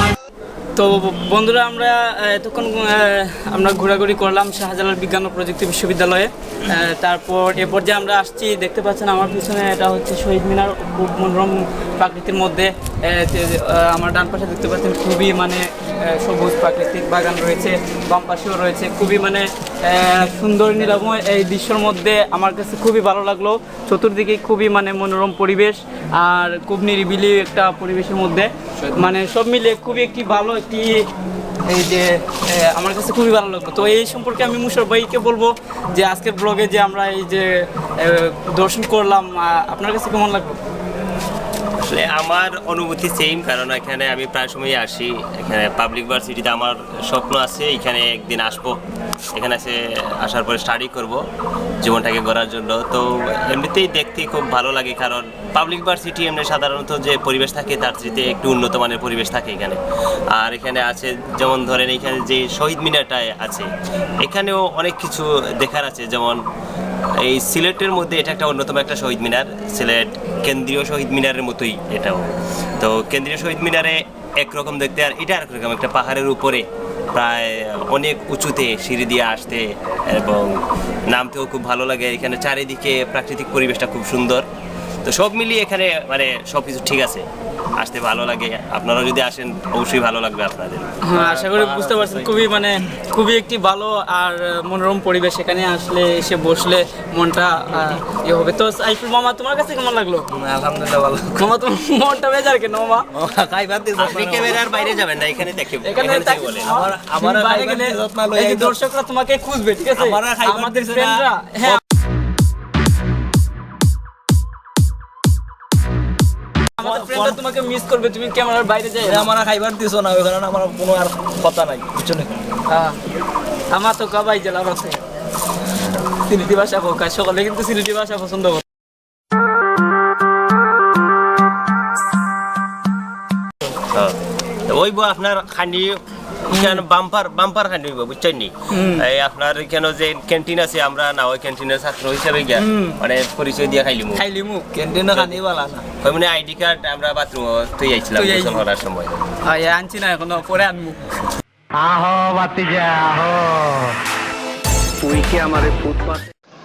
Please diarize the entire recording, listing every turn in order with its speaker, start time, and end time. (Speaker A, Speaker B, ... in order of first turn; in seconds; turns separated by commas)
Speaker A: 0.8-31.1, Speaker A: 31.6-40.6, Speaker B: 41.8-48.8, Speaker B: 49.3-51.2, Speaker B: 51.8-59.8, Speaker B: 60.3-63.7, Speaker B: 64.2-66.4, Speaker B: 67.2-84.5, Speaker B: 85.0-87.2, Speaker B: 87.8-91.0, Speaker A: 91.0-100.3, Speaker C: 91.2-92.7, Speaker C: 100.3-101.5, Speaker A: 101.3-103.1, Speaker C: 103.1-104.7, Speaker B: 104.0-106.8, Speaker A: 105.8-111.8, Speaker C: 106.7-108.8, Speaker C: 110.0-111.8, Speaker A: 116.8-119.3, Speaker C: 116.8-117.4, Speaker C: 119.0-122.4, Speaker A: 122.7-123.0, Speaker A: 123.7-125.0, Speaker A: 126.1-128.6, Speaker B: 134.7-144.2, Speaker A: 136.5-136.8, Speaker A: 138.7-139.0, Speaker A: 142.6-143.0, Speaker A: 144.1-144.7, Speaker C: 144.7-145.9, Speaker B: 145.1-145.4, Speaker B: 146.0-149.2, Speaker A: 148.2-148.6, Speaker A: 149.4-151.0, Speaker C: 151.8-154.0, Speaker C: 155.0-156.3